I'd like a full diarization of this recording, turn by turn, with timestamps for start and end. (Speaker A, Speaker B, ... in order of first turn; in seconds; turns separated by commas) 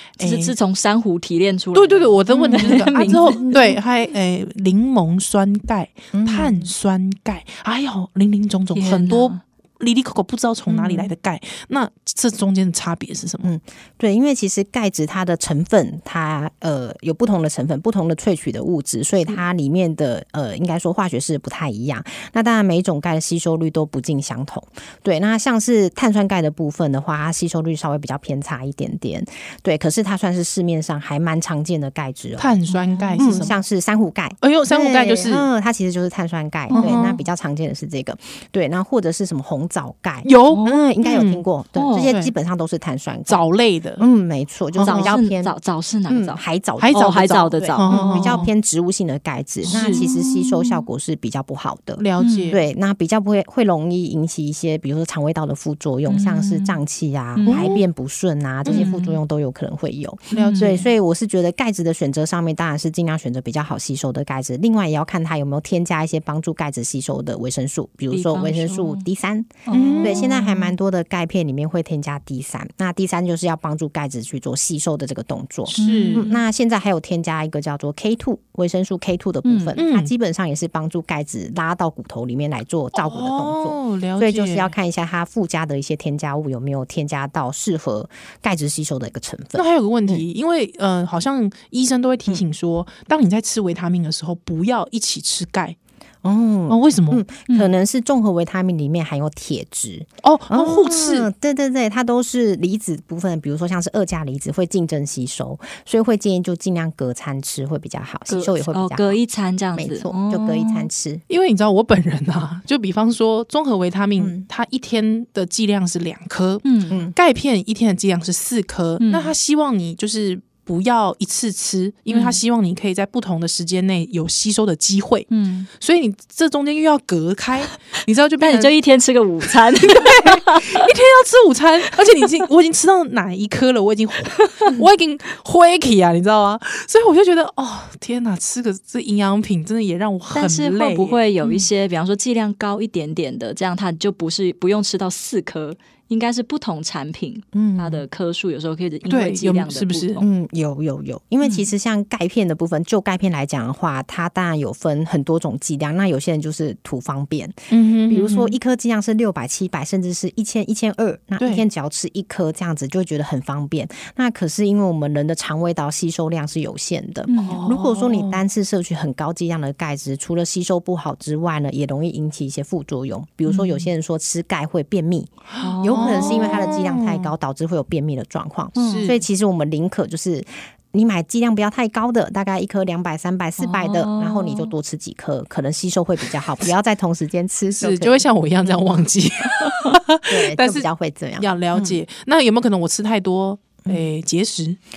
Speaker A: 0.2-0.6, Speaker B: 0.2-3.5, Speaker A: 1.7-13.5, Speaker C: 2.3-3.8, Speaker C: 6.1-6.7, Speaker B: 8.8-9.4, Speaker C: 10.7-11.1, Speaker C: 13.4-32.6, Speaker A: 32.4-33.6, Speaker B: 32.7-33.5, Speaker C: 33.2-43.4, Speaker A: 34.4-35.5, Speaker B: 36.7-37.1, Speaker A: 36.7-37.2, Speaker A: 40.2-41.4, Speaker B: 40.5-40.8, Speaker B: 41.8-42.2, Speaker A: 42.0-42.3, Speaker A: 43.3-44.0, Speaker C: 44.0-45.5, Speaker A: 44.8-45.1, Speaker B: 44.8-48.5, Speaker C: 46.1-90.2, Speaker A: 46.8-47.1, Speaker A: 47.8-48.5, Speaker A: 49.6-50.0, Speaker B: 49.7-50.8, Speaker A: 52.0-52.6, Speaker B: 52.2-52.5, Speaker B: 56.1-56.8, Speaker B: 57.4-57.6, Speaker A: 57.4-57.8, Speaker A: 58.6-58.9, Speaker B: 58.7-59.2, Speaker A: 60.3-60.9, Speaker B: 60.4-60.8, Speaker B: 68.1-69.0, Speaker B: 69.7-70.7, Speaker A: 69.7-70.3, Speaker A: 75.7-76.2, Speaker B: 75.7-76.4, Speaker B: 79.5-79.8, Speaker A: 79.8-80.1, Speaker A: 83.0-84.7, Speaker A: 89.6-95.8, Speaker C: 96.2-109.2, Speaker A: 96.7-97.3, Speaker A: 100.2-101.3, Speaker B: 108.3-110.9, Speaker C: 109.8-111.2, Speaker A: 111.3-128.7, Speaker C: 114.2-114.5, Speaker B: 116.6-117.0, Speaker B: 119.0-119.3, Speaker B: 122.1-122.4, Speaker B: 125.3-125.7, Speaker B: 128.4-130.8, Speaker A: 129.8-141.6, Speaker B: 140.3-150.3, Speaker C: 147.5-148.1, Speaker A: 149.1-150.2, Speaker C: 150.2-188.2, Speaker A: 157.7-158.6, Speaker A: 161.4-161.7, Speaker B: 167.3-167.6, Speaker A: 167.4-168.4, Speaker B: 173.5-173.8, Speaker A: 175.5-177.3, Speaker B: 175.6-176.7, Speaker B: 178.8-179.1, Speaker A: 178.8-179.2, Speaker B: 183.6-184.7, Speaker A: 187.8-190.9, Speaker C: 190.3-192.0, Speaker A: 191.4-194.8